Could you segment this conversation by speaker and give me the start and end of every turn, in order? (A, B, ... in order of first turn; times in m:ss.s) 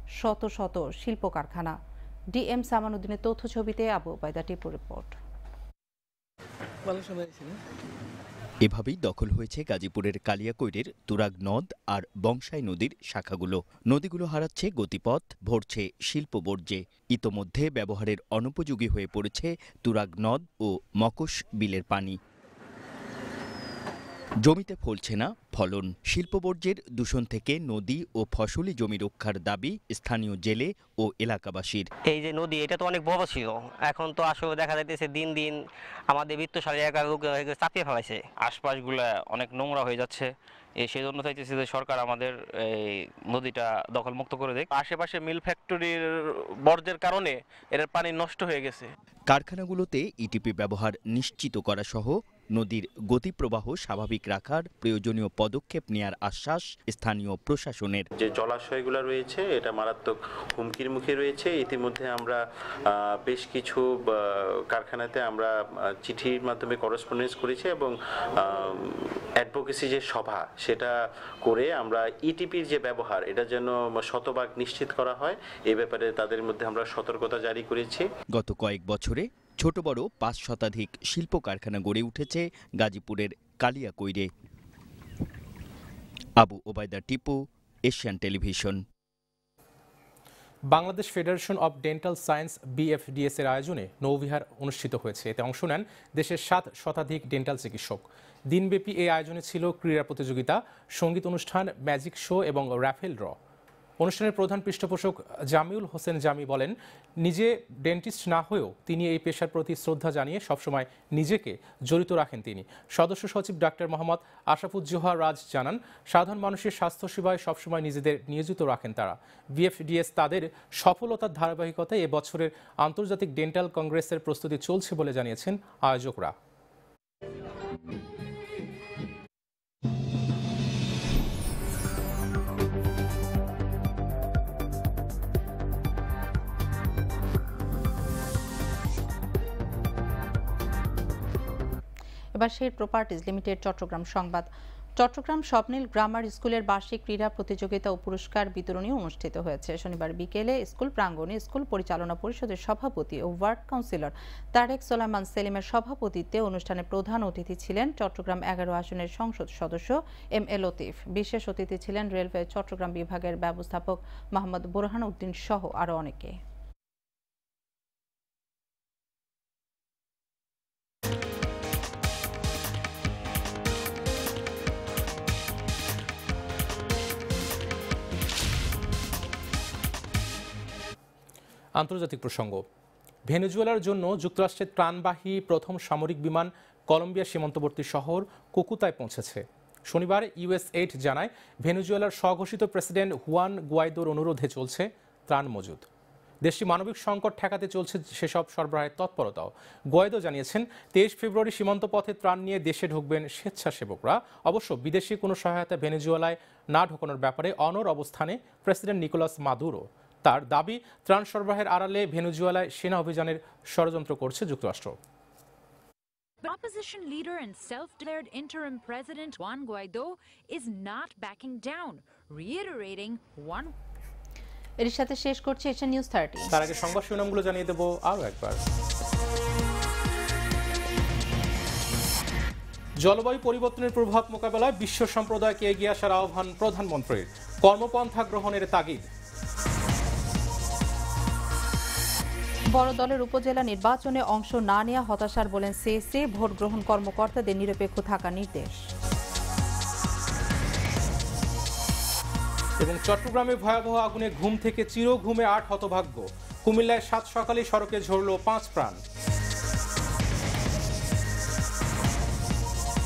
0:00.2-0:01.7 A
0:02.3-0:05.2 A
0:08.6-0:22.2 B
0:24.4-0:31.9 B
0:32.1-0:38.2 C
0:38.4-0:40.3 D
0:40.8-0:42.3 D
0:43.3-0:44.6 D
0:49.3-0:58.1 B
0:58.2-1:18.1 E
1:18.3-1:24.3 B
1:26.4-1:28.8 B
1:30.7-1:43.4 F
1:44.0-2:06.3 F
2:22.3-2:46.3 A
3:01.8-3:02.6 F
3:03.3-3:15.8 F
3:16.4-3:34.9 F
3:36.4-3:43.7 G
3:44.8-3:46.5 A
3:46.5-3:48.6 F
3:53.0-3:59.1 F
4:02.7-4:08.8 A
4:12.8-4:19.0 F